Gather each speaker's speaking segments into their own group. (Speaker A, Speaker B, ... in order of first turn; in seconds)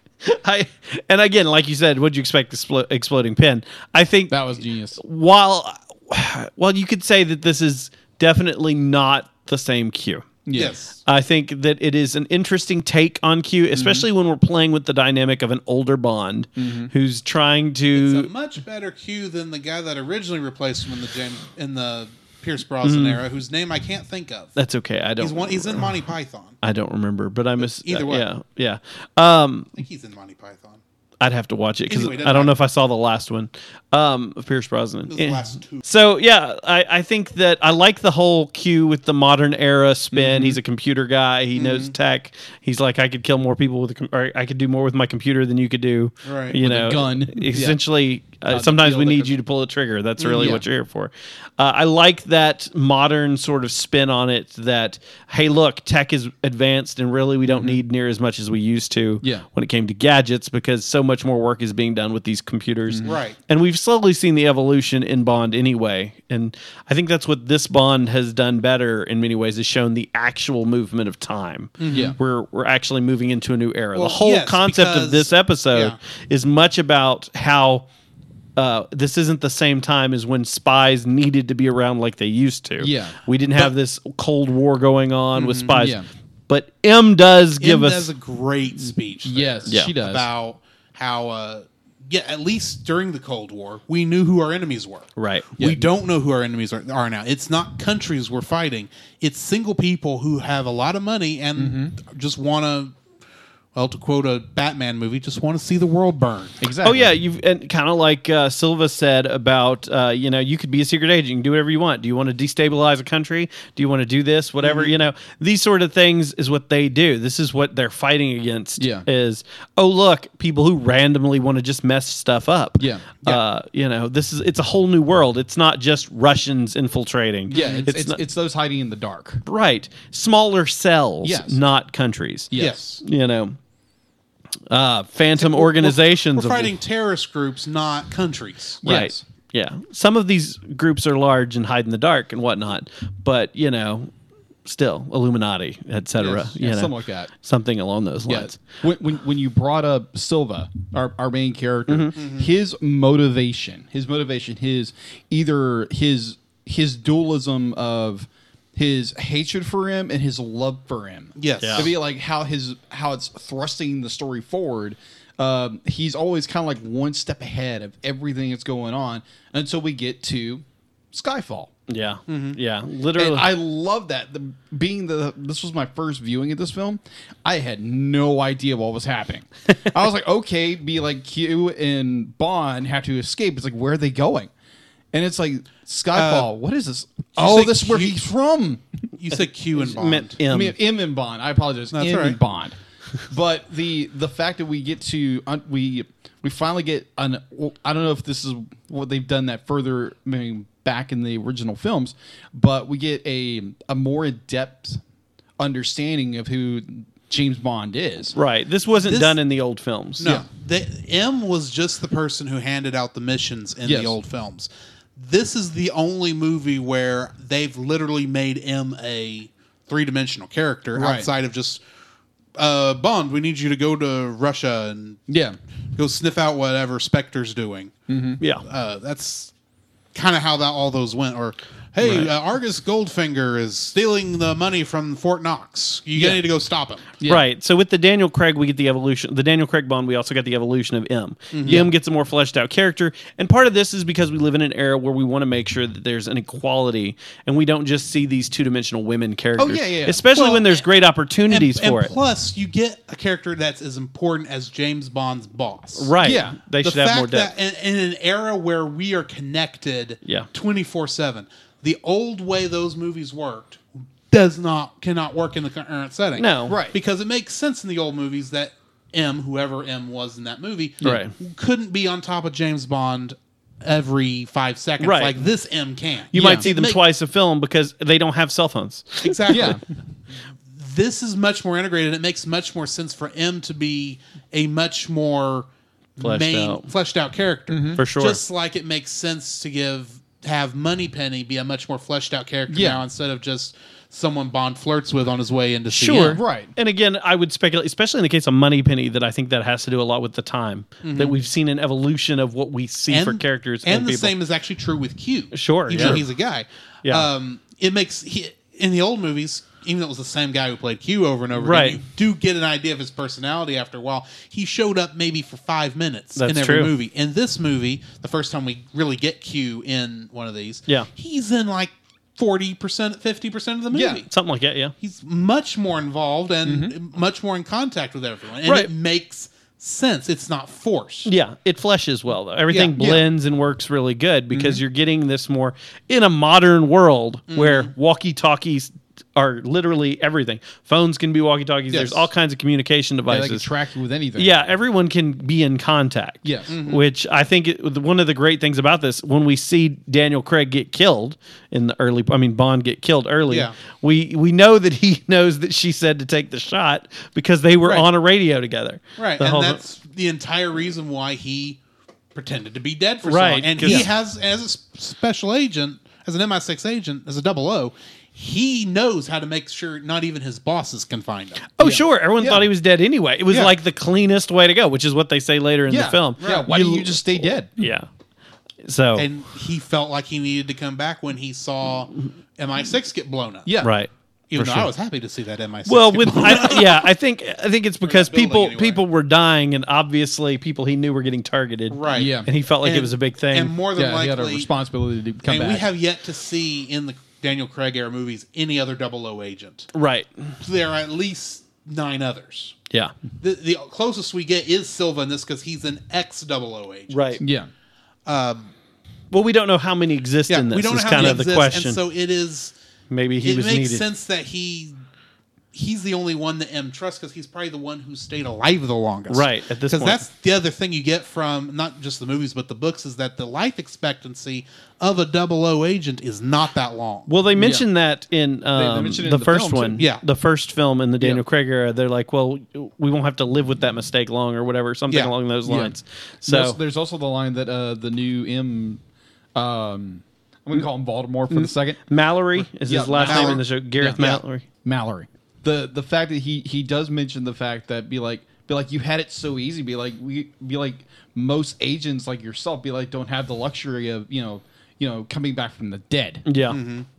Speaker A: 0.2-4.4, 5.0-10.4, 11.0-18.3, 22.8-23.2, 24.6-25.9, 26.6-29.7, 31.2-77.8, 78.5-88.1, 89.7-89.9, 95.2-95.5, 106.8-128.2, 129.4-133.6, 134.7-136.7, 138.8-144.1, 144.6-148.6, 151.9-152.2, 161.6-161.9, 171.9-173.5, 189.3-190.8, 208.3-210.3, 232.0-232.3, 237.3-252.1, 256.0-257.5, 266.4-266.8, 271.0-271.3, 275.0-275.3, 276.3-279.7, 286.2-286.9, 287.9-288.4, 295.9-304.3, 305.5-306.2, 311.6-312.0, 316.4-316.9, 324.3-324.9, 328.6-328.9, 331.2-343.7, 344.4-359.8, 363.2-364.1, 371.8-378.1, 378.8-379.3, 383.8-384.9, 385.9-393.7, 399.9-400.5, 407.1-407.4, 409.3-412.0, 413.1-414.0, 419.3-420.2, 427.3-436.8, 441.5-444.6, 456.4-456.8
Speaker B: 4.3-5.0, 10.4-10.7, 13.7-14.1, 16.6-16.9, 40.1-40.6, 46.6-47.8, 48.5-49.4, 50.4-50.6, 57.5-57.8, 62.9-63.2, 71.9-72.2, 82.8-83.2, 85.8-86.1, 89.2-90.3, 95.6-95.9, 101.5-101.9, 106.6-107.1, 118.8-119.1, 122.8-123.1, 127.5-129.4, 131.2-131.6, 132.5-132.8, 138.8-139.2, 146.2-147.3, 148.3-171.7, 173.2-184.5, 185.1-188.8, 190.5-192.8, 193.3-205.0, 205.6-208.3, 213.8-214.1, 220.9-221.3, 225.3-225.6, 228.1-228.4, 241.6-241.9, 249.6-250.2, 256.2-256.6, 266.7-267.0, 276.4-276.7, 279.5-279.8, 287.7-288.0, 292.7-293.0, 296.2-296.7, 323.9-324.2, 326.6-326.9, 343.3-344.5, 346.4-346.7, 371.8-372.6, 375.9-377.7, 383.6-383.9, 392.1-392.5, 393.9-395.9, 407.4-407.7, 427.6-427.9, 428.7-430.0, 435.6-435.9, 436.4-439.0, 439.5-442.0, 442.9-444.3, 444.8-456.4
Speaker C: 10.5-11.0, 17.9-24.6, 25.2-26.6, 27.6-28.2, 29.8-30.8, 31.9-32.5, 35.1-35.8, 41.5-41.9, 46.2-46.6, 50.2-50.6, 63.0-63.4, 71.8-72.2, 73.9-76.0, 85.3-85.9, 87.6-102.9, 103.7-106.6, 127.5-127.9, 132.6-133.0, 135.4-138.8, 161.4-161.9, 172.3-172.6, 186.1-186.5, 187.4-188.3, 189.2-190.4, 191.9-192.4, 209.0-209.4, 210.2-221.8, 222.6-225.2, 225.9-227.9, 228.6-229.5, 230.1-237.1, 241.5-241.9, 250.3-250.8, 251.5-256.1, 256.8-277.0, 279.2-279.8, 280.7-296.4, 301.0-301.4, 303.1-324.3, 325.0-331.3, 332.7-333.2, 337.5-337.9, 341.9-342.3, 346.7-347.0, 359.2-361.8, 362.3-371.7, 379.1-383.8, 384.5-387.1, 388.0-389.0, 391.9-394.7, 395.4-399.9, 400.6-402.8, 403.4-407.3, 408.2-408.7, 410.5-412.7, 413.4-414.9, 415.7-427.3, 430.0-430.2, 443.2-443.6, 456.7-457.1